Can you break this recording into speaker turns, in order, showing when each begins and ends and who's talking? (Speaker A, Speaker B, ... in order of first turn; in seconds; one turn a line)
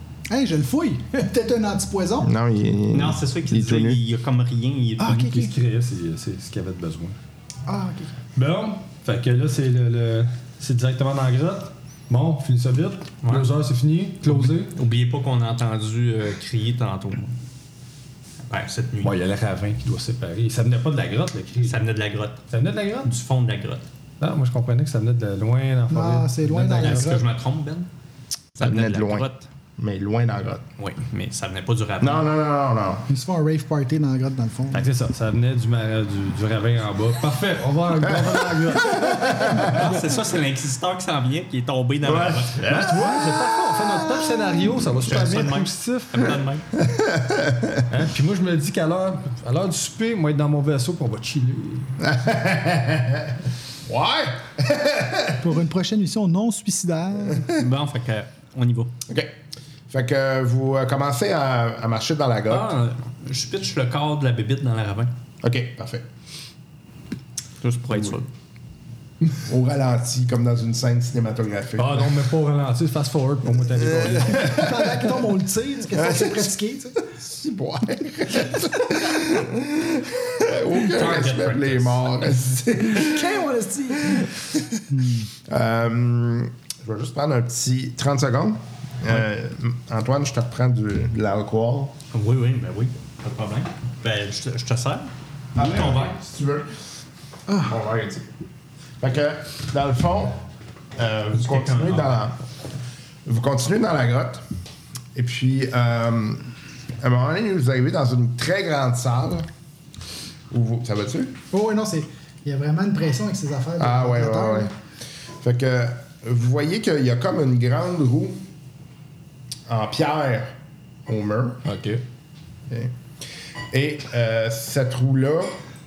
Speaker A: 0.3-2.3
Speaker B: 2.2-4.0
Speaker C: 2.9-5.3
Speaker A: 5.0-5.5
Speaker D: 5.0-7.2
Speaker A: 7.7-8.2
Speaker D: 8.4-14.7
Speaker C: 13.2-13.5
Speaker C: 14.3-17.4
Speaker C: 18.5-19.1
Speaker D: 19.0-21.9
Speaker C: 21.6-22.4
Speaker D: 22.5-23.1
Speaker C: 23.0-23.9
Speaker D: 24.2-27.2
Speaker A: 25.9-27.2
Speaker C: 26.8-27.9
Speaker C: 28.6-29.5
Speaker B: 28.6-30.6
Speaker C: 30.8-32.3
Speaker B: 32.0-33.1
Speaker A: 33.1-34.9
Speaker D: 34.7-40.2
Speaker B: 38.1-39.7
Speaker C: 39.6-42.7
Speaker B: 42.0-43.2
Speaker D: 42.6-46.4
Speaker A: 43.2-44.7
Speaker C: 45.0-46.7
Speaker B: 46.8-47.9
Speaker D: 47.9-52.0
Speaker B: 52.0-53.3
Speaker B: 53.9-55.4
Speaker A: 55.4-57.5
Speaker C: 57.5-59.0
Speaker B: 59.1-59.3
Speaker B: 59.9-62.7
Speaker C: 62.5-65.1
Speaker B: 65.4-66.1
Speaker C: 67.6-68.3
Speaker B: 69.4-72.3
Speaker D: 71.8-74.6
Speaker B: 73.7-75.1
Speaker A: 74.4-77.1
Speaker B: 75.9-76.6
Speaker B: 77.1-83.5
Speaker C: 80.7-82.1
Speaker A: 82.9-84.4
Speaker B: 84.0-84.8
Speaker A: 84.9-85.3
Speaker B: 85.5-92.0
Speaker C: 92.1-96.2
Speaker B: 95.5-96.7
Speaker A: 97.5-97.8
Speaker B: 97.7-98.3
Speaker B: 99.0-100.4
Speaker B: 101.0-102.4
Speaker C: 101.3-102.2
Speaker B: 103.3-104.4
Speaker B: 105.2-106.5
Speaker B: 107.0-109.5
Speaker B: 110.5-111.4
Speaker A: 111.5-114.7
Speaker B: 113.8-114.7
Speaker B: 115.4-118.4
Speaker B: 119.7-120.5
Speaker B: 121.1-121.7
Speaker D: 121.7-122.0
Speaker B: 123.7-125.6